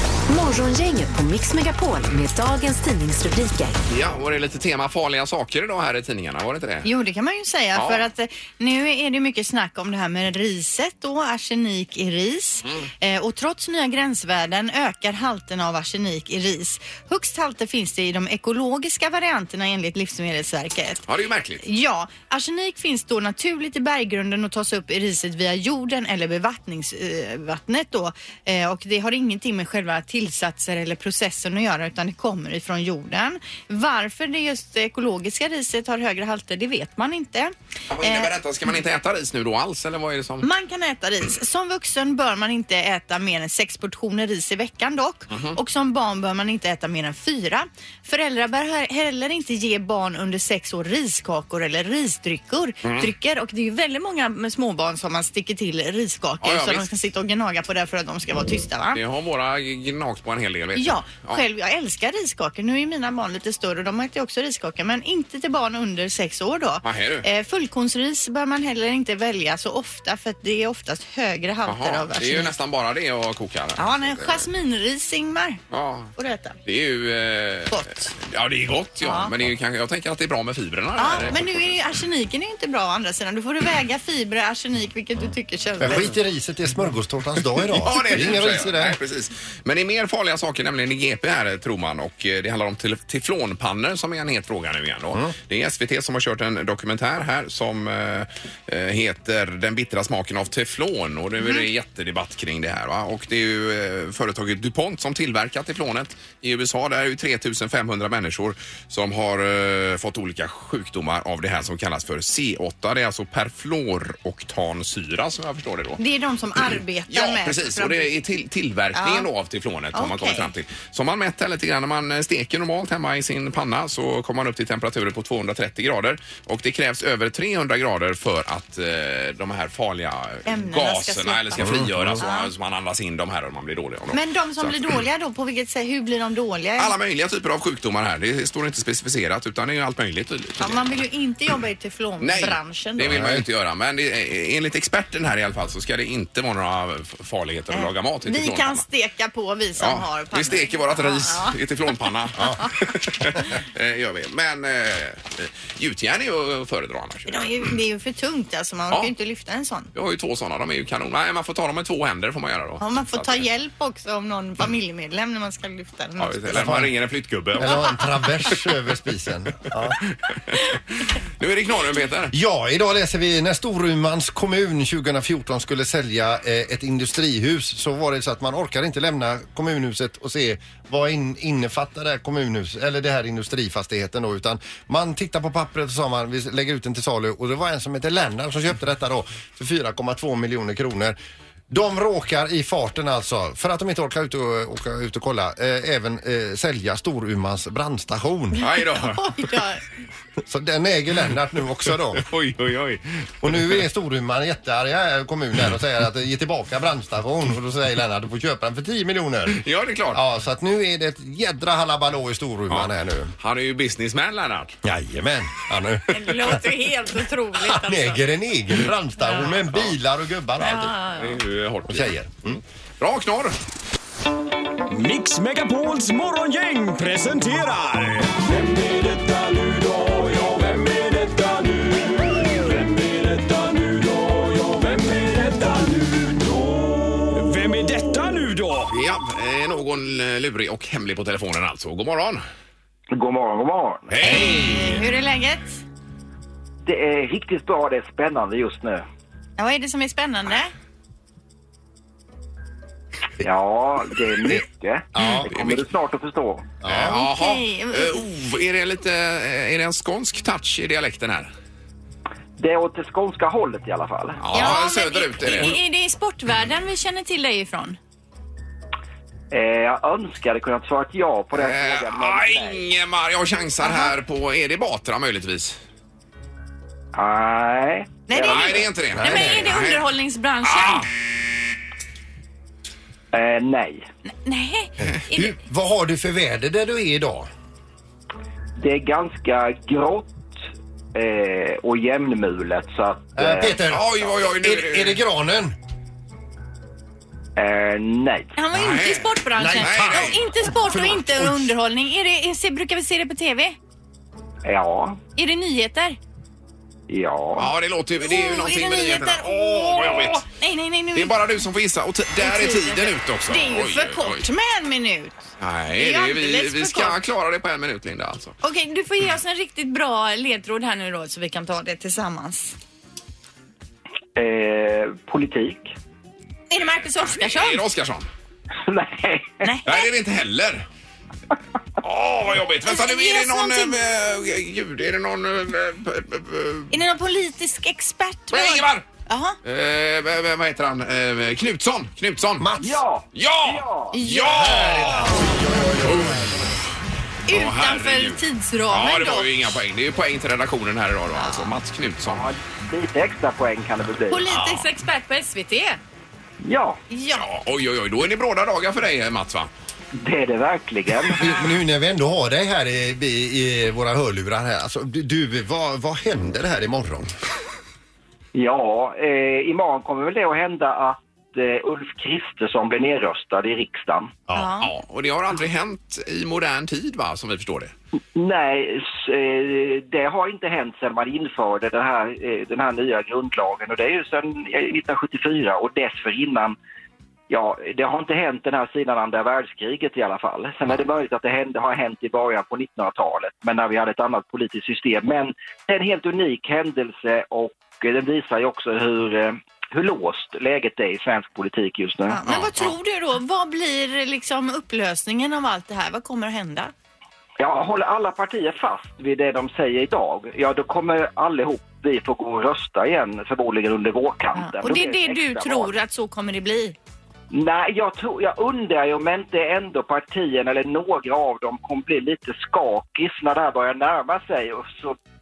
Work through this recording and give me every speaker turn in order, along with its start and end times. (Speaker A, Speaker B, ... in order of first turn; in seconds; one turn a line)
Speaker A: 0.3-3.8
Speaker B: 3.9-6.9
Speaker C: 6.8-21.1
Speaker B: 7.7-8.1
Speaker B: 21.1-21.6
Speaker C: 21.6-38.3
Speaker B: 37.9-40.5
Speaker C: 40.4-59.0
Speaker B: 45.3-45.6
Speaker B: 52.8-53.1
Speaker B: 56.4-56.9
Speaker B: 58.9-61.4
Speaker C: 60.8-72.5
Speaker B: 66.8-67.3
Speaker B: 71.7-74.5
Speaker C: 73.8-75.6
Speaker B: 75.7-76.1
Speaker C: 76.2-76.6
Speaker B: 76.7-81.8
Speaker C: 77.7-78.1
Speaker C: 79.0-79.3
Speaker C: 81.0-86.2
Speaker D: 85.8-89.0
Speaker B: 87.8-116.0
Speaker C: 101.4-101.7
Speaker C: 116.0-118.1
Speaker B: 116.7-135.0
Speaker C: 118.9-119.3
Speaker C: 119.9-120.5
Speaker C: 130.5-132.5
Speaker D: 131.6-132.2
Speaker C: 134.1-136.9
Speaker B: 136.8-141.0
Speaker C: 140.6-143.1
Speaker B: 142.2-148.8
Speaker D: 143.0-143.4
Speaker C: 147.7-151.6
Speaker B: 149.8-157.7
Speaker C: 157.3-159.9
Speaker B: 159.9-163.5
Speaker C: 162.8-166.6
Speaker B: 166.2-167.9
Speaker D: 166.5-166.9
Speaker D: 167.6-170.0
Speaker C: 167.6-167.9
Speaker B: 170.1-170.6
Speaker B: 171.4-172.3
Speaker D: 172.3-191.2
Speaker D: 191.7-198.6
Speaker B: 198.6-199.6
Speaker C: 198.7-199.8
Speaker D: 200.5-202.2
Speaker B: 201.9-203.8
Speaker D: 203.4-213.3
Speaker B: 209.5-210.2
Speaker B: 212.7-214.8
Speaker D: 214.8-216.6
Speaker C: 216.1-218.2
Speaker D: 217.6-220.9
Speaker B: 219.3-219.9
Speaker C: 220.6-221.4
Speaker B: 221.2-223.6
Speaker D: 221.9-222.6
Speaker E: 224.9-238.9
Speaker B: 238.9-242.4
Speaker F: 243.1-244.2
Speaker B: 244.1-245.1
Speaker C: 244.2-245.8
Speaker F: 246.8-249.0
Speaker C: 249.6-250.7
Speaker F: 253.4-256.7
Speaker D: 255.1-255.5
Speaker B: 255.2-255.9
Speaker D: 256.8-257.1
Speaker B: 256.8-261.5
Speaker C: 257.1-258.2
Speaker F: 262.6-264.4
Speaker B: 264.4-265.8
Speaker C: 264.5-268.0
Speaker F: 269.5-272.9
Speaker B: 271.6-275.8
Speaker C: 273.8-274.1
Speaker F: 277.1-278.9
Speaker C: 278.3-281.1
Speaker B: 278.4-280.1
Speaker D: 279.1-279.8
Speaker B: 280.6-281.1
Speaker F: 283.3-284.0
Speaker C: 284.2-285.6
Speaker D: 285.0-287.5
Speaker F: 288.8-290.6
Speaker F: 291.1-293.8
Speaker D: 293.4-295.8
Speaker B: 293.9-295.2
Speaker F: 297.6-298.5
Speaker C: 298.6-303.8
Speaker B: 298.7-300.5
Speaker D: 299.6-301.7
Speaker F: 304.6-305.2
Speaker C: 305.4-306.2
Speaker F: 307.1-307.7
Speaker B: 307.6-310.4
Speaker C: 308.2-311.4
Speaker B: 311.1-314.4
Speaker C: 312.4-317.2
Speaker B: 315.6-318.5
Speaker C: 318.6-322.8
Speaker F: 324.4-325.9
Speaker C: 326.7-327.8
Speaker B: 327.2-328.3
Speaker F: 328.9-329.7
Speaker C: 329.6-330.1
Speaker B: 329.9-330.8
Speaker B: 332.0-337.0
Speaker C: 332.8-334.0
Speaker C: 336.9-339.6
Speaker B: 338.5-339.1
Speaker B: 339.6-342.7
Speaker D: 342.6-343.0
Speaker F: 342.8-344.2
Speaker B: 343.3-346.6
Speaker C: 344.1-345.7
Speaker D: 344.5-346.6
Speaker C: 347.5-349.6
Speaker B: 347.5-352.5
Speaker C: 351.3-351.7
Speaker F: 352.2-354.4
Speaker C: 354.3-356.0
Speaker F: 356.6-357.0
Speaker C: 357.1-357.5
Speaker B: 357.3-359.7
Speaker F: 360.1-361.5
Speaker D: 361.3-367.3
Speaker F: 368.5-374.3
Speaker C: 374.5-374.9
Speaker B: 374.8-377.9
Speaker F: 378.4-386.8
Speaker F: 387.5-402.4
Speaker C: 402.3-406.9
Speaker B: 402.4-403.0
Speaker F: 407.6-416.0
Speaker C: 414.6-416.9
Speaker F: 417.5-425.2